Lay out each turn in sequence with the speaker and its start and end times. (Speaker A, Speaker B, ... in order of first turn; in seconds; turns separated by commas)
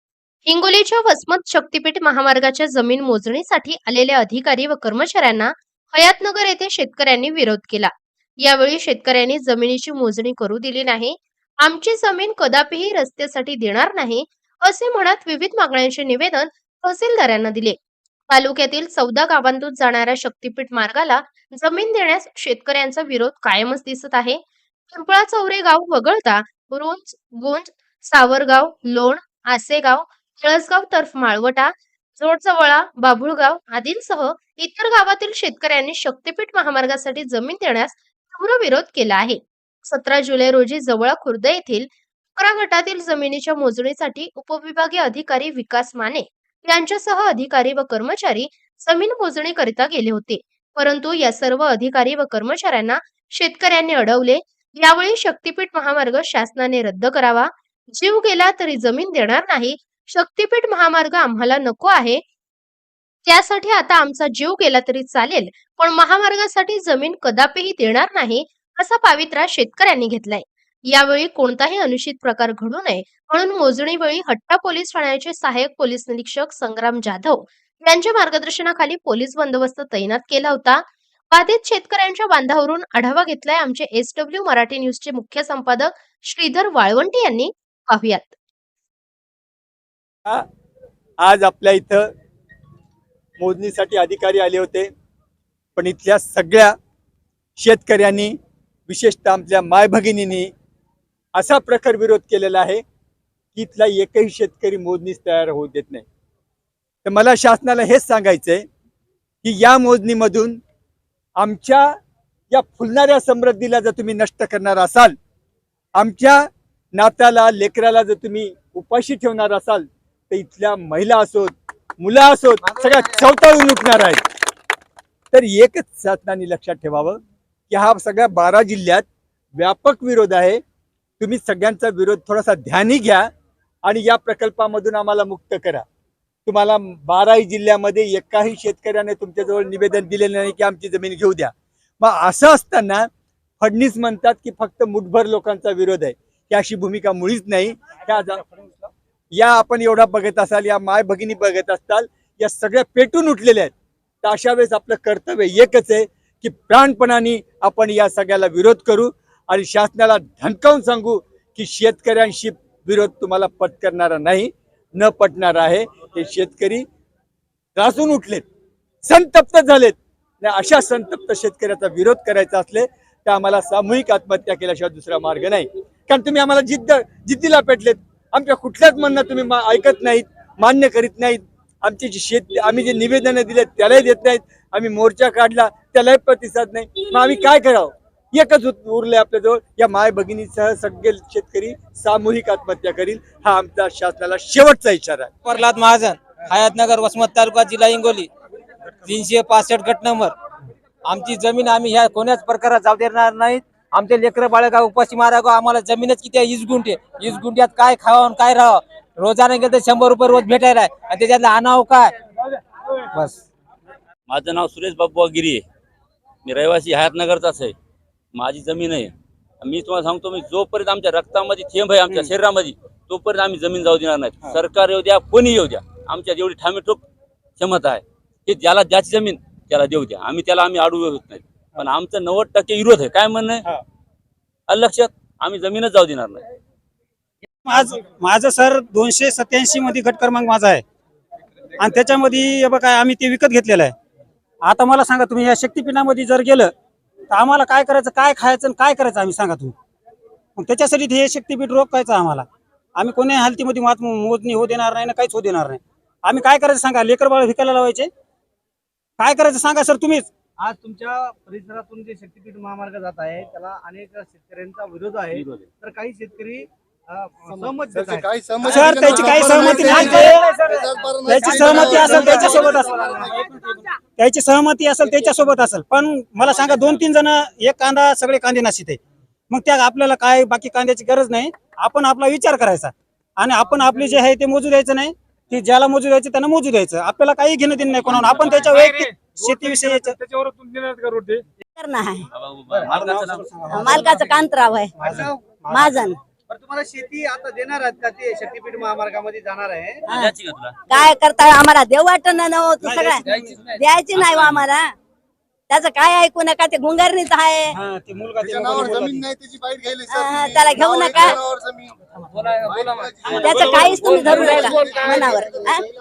Speaker A: 0.5-17.8, Speaker A: 18.3-62.2, Speaker A: 63.2-88.3, Speaker B: 91.2-92.1, Speaker B: 93.4-94.9, Speaker B: 95.8-96.7, Speaker B: 97.6-98.3, Speaker B: 98.9-100.5, Speaker B: 101.3-102.8, Speaker B: 103.5-106.0, Speaker B: 107.0-108.6, Speaker B: 109.4-110.6, Speaker B: 111.4-111.9, Speaker B: 112.5-115.2, Speaker B: 116.0-124.2, Speaker B: 125.3-129.0, Speaker B: 129.6-130.6, Speaker B: 131.2-133.3, Speaker B: 133.8-135.8, Speaker B: 136.4-143.1, Speaker B: 143.6-148.4, Speaker B: 149.3-166.8, Speaker B: 167.8-168.4, Speaker B: 169.0-195.3, Speaker C: 195.4-198.3, Speaker C: 199.0-200.3, Speaker C: 201.0-212.2, Speaker C: 213.1-213.4, Speaker D: 214.3-215.6, Speaker D: 216.4-217.7, Speaker D: 218.3-227.0, Speaker D: 227.6-233.7, Speaker D: 234.7-236.4, Speaker E: 237.6-240.8, Speaker E: 241.8-243.9, Speaker E: 244.6-246.7, Speaker E: 247.3-249.7, Speaker E: 250.6-258.1, Speaker E: 259.2-260.3, Speaker F: 260.6-268.8, Speaker D: 265.3-265.6, Speaker G: 267.5-273.4, Speaker E: 268.6-270.5, Speaker F: 270.3-270.9, Speaker E: 271.2-273.6, Speaker F: 272.9-273.2, Speaker E: 274.1-291.3, Speaker F: 288.4-288.8, Speaker H: 291.8-292.3, Speaker D: 292.3-293.5, Speaker E: 292.9-294.4, Speaker H: 293.7-294.9, Speaker E: 295.0-296.1, Speaker F: 295.0-295.6, Speaker H: 295.7-296.2, Speaker F: 296.5-300.0, Speaker E: 300.1-300.3, Speaker D: 300.1-300.8, Speaker H: 300.9-304.9, Speaker E: 302.8-303.6, Speaker D: 303.5-304.5, Speaker H: 305.7-307.8, Speaker E: 307.7-309.3, Speaker G: 308.4-311.9, Speaker H: 310.1-311.4, Speaker D: 312.3-315.4, Speaker G: 312.6-314.9, Speaker H: 313.3-315.9, Speaker G: 315.4-315.8